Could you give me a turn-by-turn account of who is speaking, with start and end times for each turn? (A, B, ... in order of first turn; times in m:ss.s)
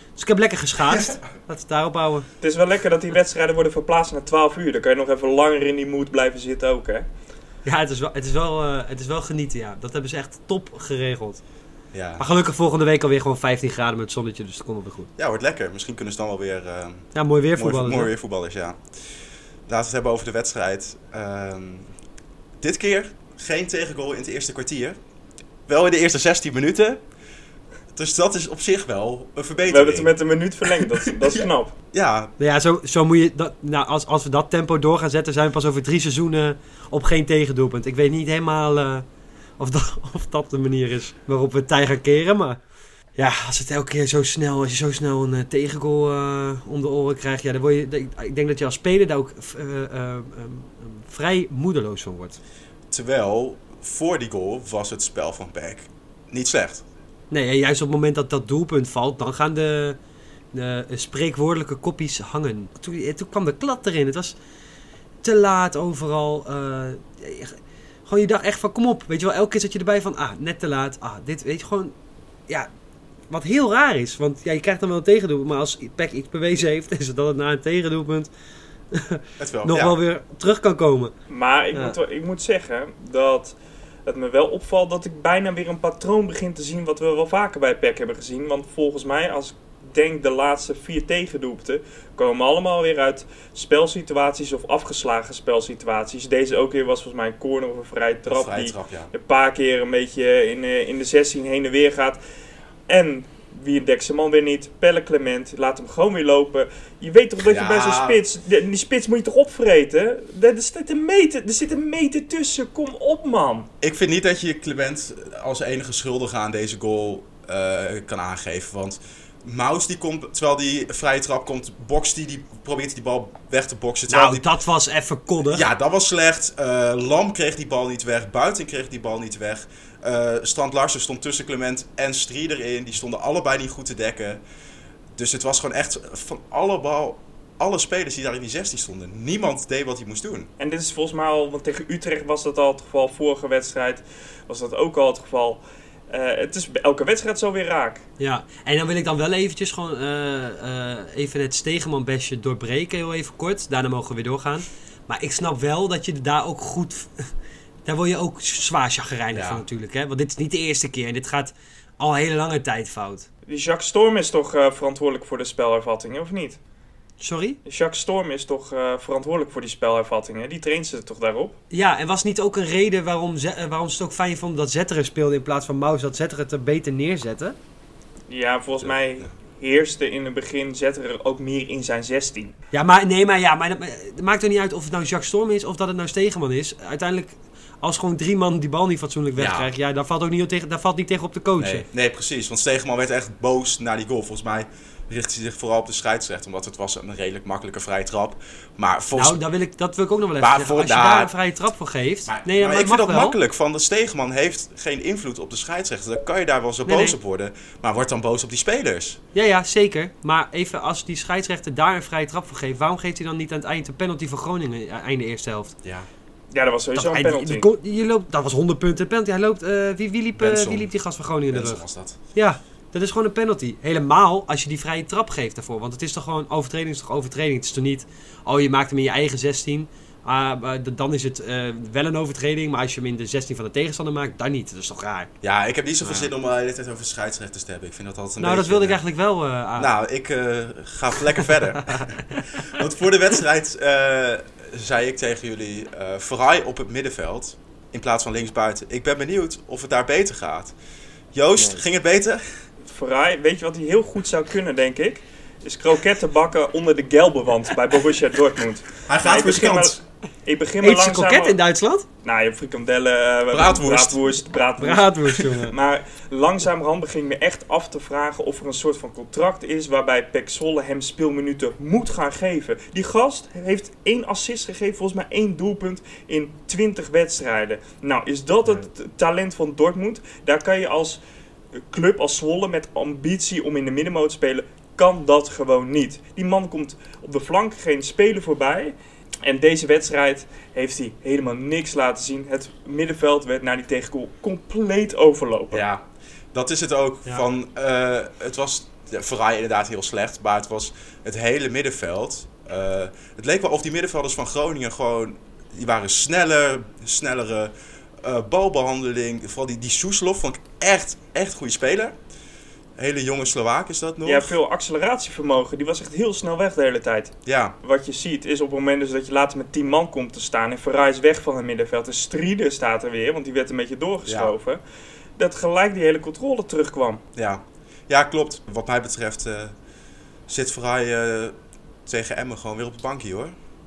0:00.2-0:02.3 A
0:00.9-0:01.2 B
0:02.4-0:07.1 C
0:07.6-0:11.4 A
0:11.9-0:12.2 B
0:12.2-0:15.1 A
0:15.2-0:18.8 B
0:17.1-0:18.1 A
0:19.7-0:21.9 B
0:22.6-0:25.0 B
0:25.7-0:27.0 B
0:27.9-0:30.1 B
0:29.7-0:31.7 C
0:31.9-0:32.3 B
0:32.4-0:39.0 A
0:39.6-0:42.6 A
0:43.2-0:52.4 A
0:52.9-0:56.8 B
0:57.3-1:00.0 A
1:00.5-1:04.4 A
1:05.2-1:11.9 A
1:13.3-1:18.3 A
1:18.9-1:21.1 A
1:19.4-1:20.0 B
1:21.3-1:23.6 C
1:24.1-1:42.2 C
1:38.3-1:39.1 B
1:42.9-1:53.7 C
1:47.4-1:48.2 B
1:53.8-2:04.5 B
2:04.1-2:05.7 A
2:05.5-2:14.4 B
2:15.2-2:20.5 B
2:20.6-2:28.0 C
2:28.2-2:37.3 A
2:37.9-2:43.3 A
2:39.3-2:39.6 B
2:43.5-2:46.6 C
2:47.2-2:47.6 A
2:47.6-2:51.6 C
2:51.7-2:57.6 A
2:58.3-3:02.6 C
2:58.8-2:59.3 B
3:02.7-3:11.9 A
3:09.4-3:09.7 B
3:11.6-3:19.4 B
3:19.2-3:23.4 A
3:20.4-3:21.3 B
3:22.3-3:29.2 B
3:26.9-3:27.2 A
3:29.3-3:35.7 A
3:35.8-3:36.1 B
3:36.5-3:37.7 C
3:37.0-3:55.3 A
3:40.4-3:41.0 B
3:41.5-3:42.2 B
3:55.4-3:59.0 B
3:56.0-3:56.3 A
3:58.4-3:59.9 A
3:59.8-4:10.8 B
4:11.3-4:12.4 B
4:11.6-4:11.8 A
4:12.9-4:21.6 C
4:19.1-4:20.0 B
4:20.8-4:22.0 A
4:22.2-4:41.2 C
4:23.5-4:24.4 B
4:24.8-4:25.7 A
4:41.9-4:55.8 C
4:55.7-5:12.2 B
5:13.0-5:14.5 B
5:14.2-5:24.8 C
5:17.5-5:17.8 B
5:24.3-5:24.5 B
5:25.4-5:27.2 C
5:27.4-5:29.7 B
5:30.5-5:33.6 B